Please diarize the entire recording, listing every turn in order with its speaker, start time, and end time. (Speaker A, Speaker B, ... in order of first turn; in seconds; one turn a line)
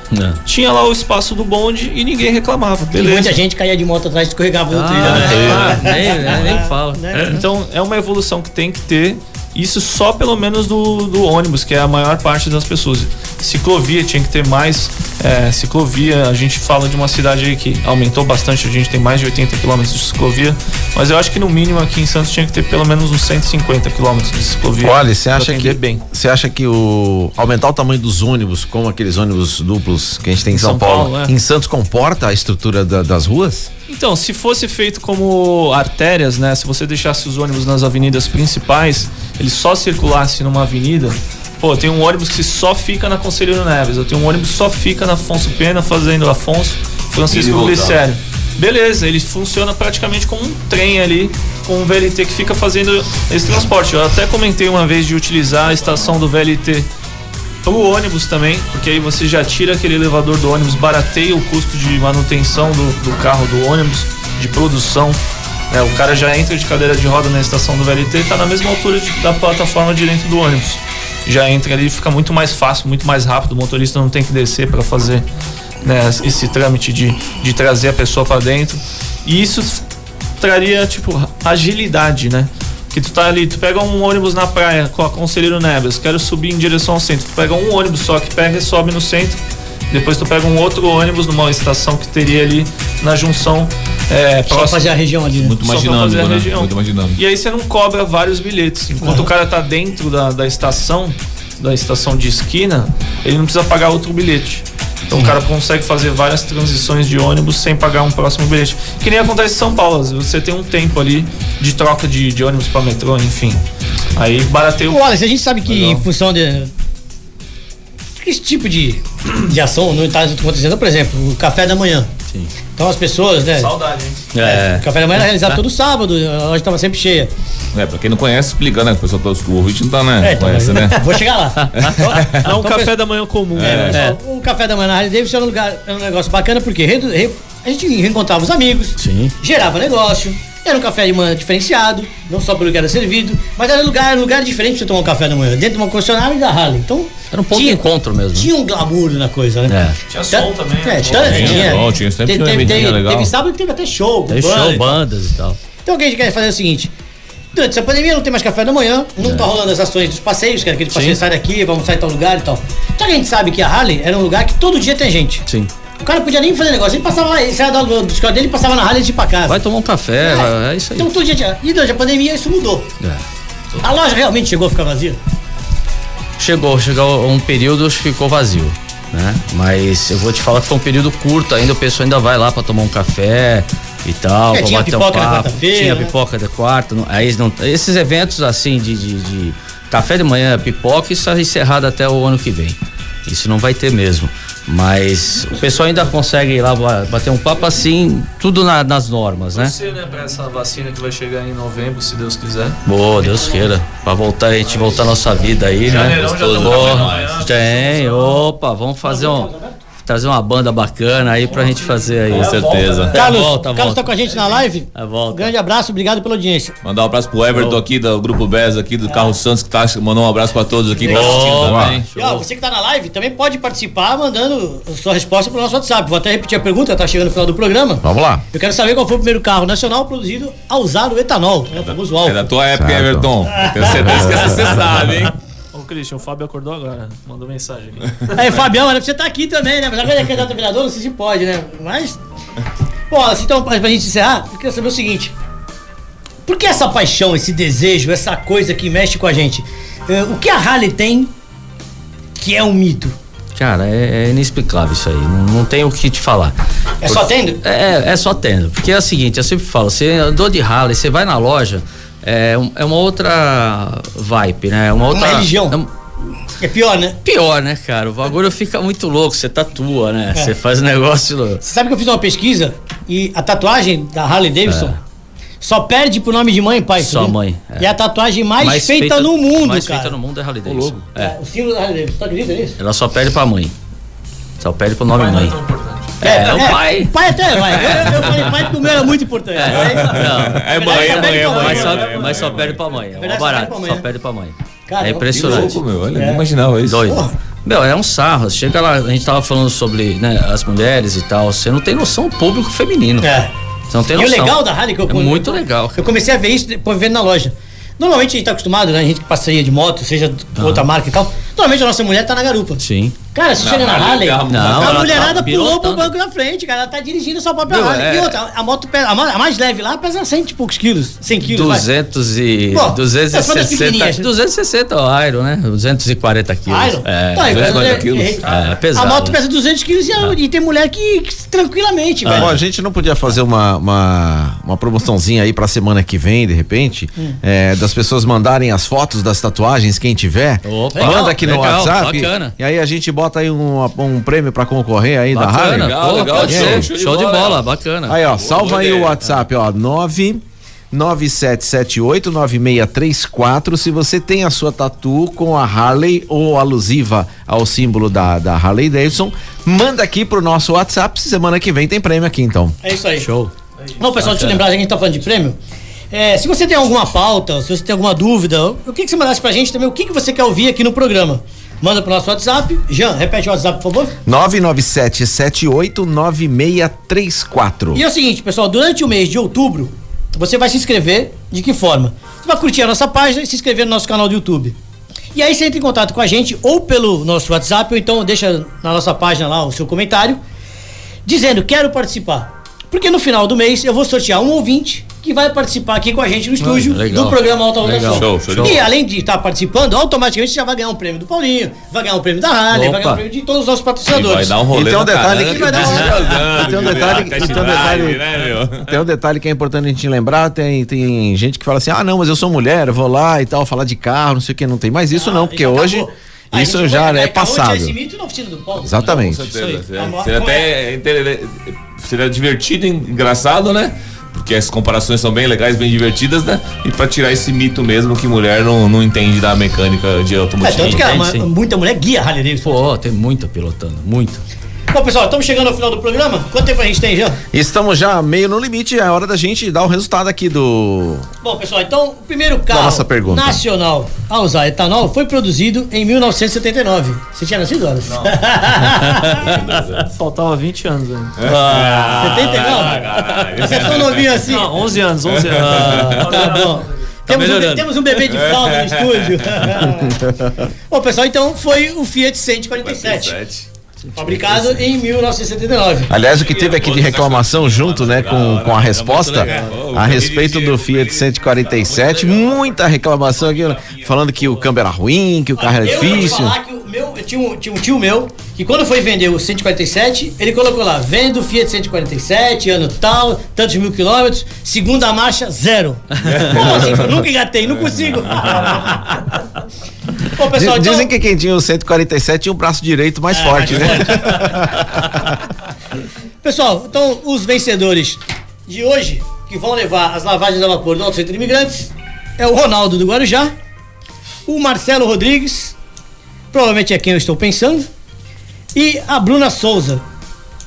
Speaker A: 0.1-0.4
Speaker B: 0.5-3.4
Speaker C: 2.9-7.3
Speaker A: 4.7-7.4
Speaker B: 5.0-6.3
Speaker D: 5.4-5.7
Speaker B: 7.2-26.0
Speaker E: 24.8-33.7
Speaker B: 30.5-31.3
Speaker B: 33.9-56.9
Speaker D: 47.3-48.0
Speaker B: 57.6-65.2
Speaker B: 65.7-75.2
Speaker B: 75.8-79.8
Speaker B: 80.4-89.4
Speaker B: 89.9-94.8
Speaker C: 94.5-95.5
Speaker D: 95.4-97.2
Speaker B: 95.6-113.6
Speaker C: 99.0-99.3
Speaker B: 114.2-115.0
Speaker C: 114.9-116.7
Speaker C: 118.2-122.1
Speaker C: 122.8-123.7
Speaker B: 123.6-124.3
Speaker A: 124.3-124.9
Speaker C: 124.4-127.3
Speaker D: 127.7-131.0
Speaker C: 130.2-132.9
Speaker A: 131.6-131.9
Speaker D: 131.8-132.4
Speaker B: 132.2-134.0
Speaker D: 133.6-134.0
Speaker C: 133.6-149.8
Speaker A: 139.0-139.3
Speaker A: 147.3-148.5
Speaker A: 149.7-150.0
Speaker B: 150.1-151.8
Speaker C: 150.3-155.0
Speaker D: 151.1-153.3
Speaker A: 154.3-155.6
Speaker C: 155.8-156.9
Speaker C: 157.5-165.4
Speaker A: 159.2-159.5
Speaker A: 160.9-161.2
Speaker C: 166.0-169.6
Speaker A: 169.5-171.1
Speaker C: 170.2-172.9
Speaker C: 173.8-175.2
Speaker A: 176.4-199.7
Speaker C: 184.5-186.1
Speaker B: 199.5-202.8
Speaker A: 202.8-212.6
Speaker B: 205.9-208.4
Speaker D: 205.9-207.4
Speaker C: 209.0-209.8
Speaker B: 211.5-213.4
Speaker D: 212.3-213.2
Speaker C: 213.1-216.7
Speaker A: 213.2-214.2
Speaker A: 214.9-215.5
Speaker D: 216.8-222.1
Speaker A: 217.5-217.8
Speaker C: 219.1-219.3
Speaker C: 221.0-221.6
Speaker A: 221.1-222.4
Speaker E: 221.6-222.0
Speaker C: 222.2-232.4
Speaker E: 228.0-228.4
Speaker D: 231.8-235.3
Speaker E: 232.8-233.3
Speaker C: 233.5-234.5
Speaker B: 235.7-238.3
Speaker C: 238.3-242.2
Speaker C: 243.1-245.3
Speaker C: 246.5-251.3
Speaker C: 252.4-253.2
Speaker A: 253.6-265.9
Speaker C: 257.0-257.6
Speaker C: 265.1-265.8
Speaker C: 266.6-267.2
Speaker A: 267.2-271.6
Speaker C: 271.6-275.0
Speaker A: 274.7-275.0
Speaker C: 275.6-280.1
Speaker A: 277.0-277.9
Speaker A: 278.6-281.4
Speaker D: 280.7-281.0
Speaker C: 281.1-282.8
Speaker A: 282.8-283.7
Speaker A: 284.6-285.6
Speaker B: 285.1-286.2
Speaker A: 286.2-287.1
Speaker C: 286.2-292.2
Speaker A: 287.7-288.0
Speaker A: 289.5-295.8
Speaker D: 289.7-292.8
Speaker B: 291.9-292.5
Speaker C: 293.2-294.1
Speaker C: 294.9-296.4
Speaker D: 295.4-297.0
Speaker A: 296.9-303.3
Speaker C: 297.1-297.3
Speaker C: 303.2-303.5
Speaker A: 303.9-306.1
Speaker C: 304.1-321.9
Speaker A: 310.6-310.9
Speaker A: 312.8-313.2
Speaker D: 313.6-315.4
Speaker A: 314.5-316.1
Speaker A: 317.7-318.4
Speaker A: 321.4-329.4
Speaker C: 322.7-324.3
Speaker C: 326.7-332.6
Speaker D: 327.5-328.5
Speaker A: 332.2-332.6
Speaker E: 332.3-346.9
Speaker A: 340.6-342.6
Speaker C: 340.9-341.5
Speaker A: 345.3-348.2
Speaker D: 345.7-347.7
Speaker E: 348.1-362.8
Speaker D: 348.2-349.2
Speaker C: 362.8-363.3
Speaker A: 363.2-363.5
Speaker C: 364.0-365.6
Speaker A: 364.1-364.6
Speaker C: 366.1-374.2
Speaker E: 374.3-378.0
Speaker C: 377.9-384.8
Speaker C: 385.4-390.4
Speaker C: 391.3-404.6
Speaker A: 396.6-398.9
Speaker D: 398.1-398.8
Speaker A: 402.7-403.2
Speaker D: 404.1-408.9
Speaker E: 404.7-408.3
Speaker C: 405.4-406.4
Speaker A: 406.3-407.8
Speaker E: 408.8-418.0
Speaker C: 415.1-419.0
Speaker E: 418.8-419.5
Speaker D: 419.0-431.1
Speaker A: 419.5-419.8
Speaker C: 419.9-420.7
Speaker C: 430.6-432.9
Speaker A: 430.7-431.5
Speaker A: 432.6-434.4
Speaker C: 434.9-437.4
Speaker E: 437.5-441.3
Speaker C: 441.4-449.6
Speaker E: 442.7-443.6
Speaker A: 449.1-449.5
Speaker D: 449.4-450.0
Speaker B: 450.1-451.4
Speaker D: 451.4-454.4
Speaker A: 451.4-453.5
Speaker C: 452.2-454.7
Speaker B: 454.4-456.8
Speaker D: 455.3-456.3
Speaker A: 455.5-456.3
Speaker C: 456.2-460.2
Speaker A: 457.3-457.9
Speaker D: 458.3-459.7
Speaker C: 460.9-463.4
Speaker D: 462.8-463.7
Speaker A: 464.0-464.9
Speaker C: 464.1-466.1
Speaker E: 466.1-476.6
Speaker D: 466.2-474.7
Speaker A: 468.9-470.1
Speaker C: 469.4-469.7
Speaker C: 475.6-489.2
Speaker D: 486.3-486.9
Speaker C: 490.3-491.1
Speaker E: 490.5-495.3
Speaker C: 493.3-494.6
Speaker C: 496.4-503.5
Speaker C: 504.5-505.8
Speaker C: 506.5-507.9
Speaker C: 508.8-510.0